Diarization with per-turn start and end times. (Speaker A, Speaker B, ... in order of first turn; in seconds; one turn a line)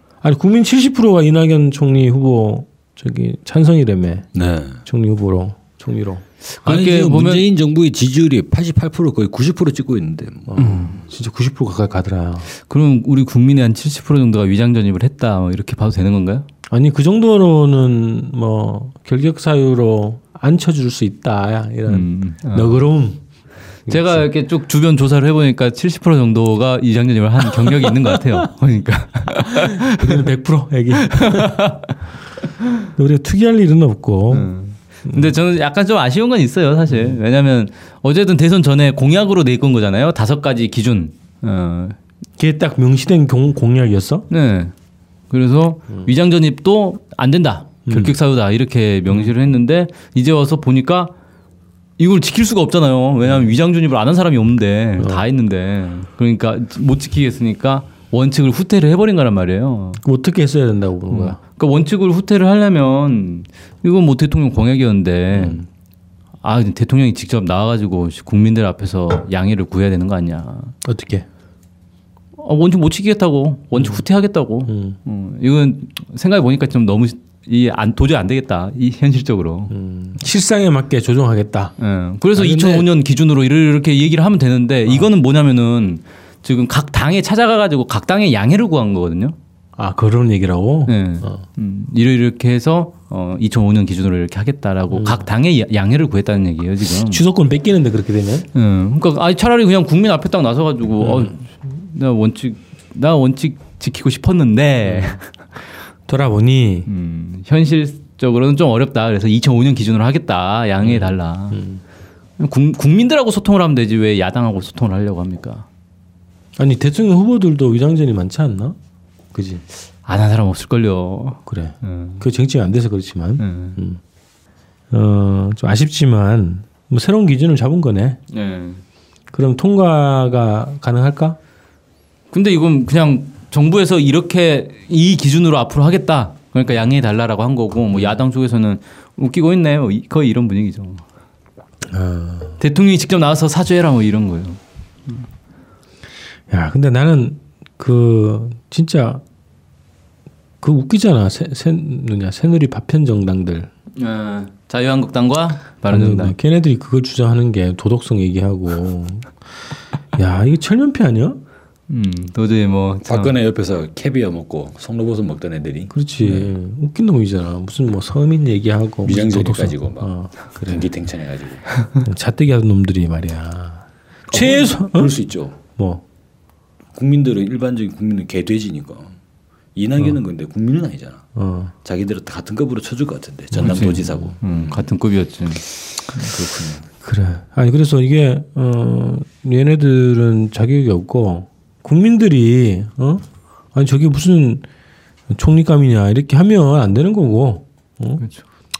Speaker A: 0.2-4.3
Speaker B: 4.3-4.8
Speaker A: 4.8-6.2
Speaker C: 6.5-7.5
Speaker B: 6.6-10.9
Speaker A: 10.5-12.5
Speaker C: 10.6-11.0
Speaker C: 12.6-16.4
Speaker A: 16.7-23.2
Speaker C: 21.9-22.8
Speaker A: 23.9-24.3
Speaker C: 23.9-30.2
Speaker A: 29.9-31.6
Speaker C: 30.9-31.9
Speaker A: 33.0-34.5
Speaker C: 34.3-42.0
Speaker A: 35.1-35.3
Speaker A: 42.4-44.3
Speaker C: 44.3-44.7
Speaker C: 45.3-51.1
Speaker A: 47.9-48.1
Speaker C: 52.0-60.0
Speaker A: 55.0-55.2
Speaker A: 60.0-61.4
Speaker C: 61.1-65.6
Speaker A: 65.3-65.7
Speaker C: 66.4-70.7
Speaker A: 70.8-71.2
Speaker C: 72.4-79.7
Speaker A: 73.8-74.0
Speaker A: 74.7-75.0
Speaker A: 79.7-81.7
Speaker C: 81.8-89.3
Speaker A: 82.3-82.8
Speaker A: 89.8-91.4
Speaker C: 90.9-97.2
Speaker A: 94.9-95.3
Speaker A: 97.0-98.5
Speaker C: 98.5-105.2
Speaker A: 101.0-101.3
Speaker A: 104.8-105.2
Speaker A: 106.1-106.9
Speaker C: 106.9-111.6
Speaker A: 110.8-111.8
Speaker C: 112.4-115.7
Speaker A: 116.6-118.8
Speaker A: 119.3-119.6
Speaker C: 120.0-122.2
Speaker A: 121.5-124.0
Speaker C: 123.4-123.8
Speaker A: 124.9-128.2
Speaker C: 128.3-128.8
Speaker A: 129.3-131.4
Speaker C: 132.3-141.0
Speaker A: 137.9-138.2
Speaker A: 141.9-142.6
Speaker C: 142.6-145.2
Speaker A: 146.5-149.2
Speaker A: 150.6-153.7
Speaker C: 154.0-156.3
Speaker A: 155.9-159.3
Speaker A: 160.1-161.4
Speaker C: 161.9-163.4
Speaker B: 163.1-166.5
Speaker A: 165.9-170.9
Speaker B: 169.0-170.1
Speaker B: 170.6-171.7
Speaker A: 172.0-175.2
Speaker B: 174.3-175.6
Speaker A: 175.7-176.0
Speaker B: 176.9-179.1
Speaker B: 179.8-181.2
Speaker A: 181.3-181.7
Speaker B: 181.8-184.8
Speaker C: 183.5-185.6
Speaker A: 183.6-184.3
Speaker B: 186.3-186.8
Speaker A: 187.0-194.6
Speaker A: 195.3-198.2
Speaker C: 198.2-198.4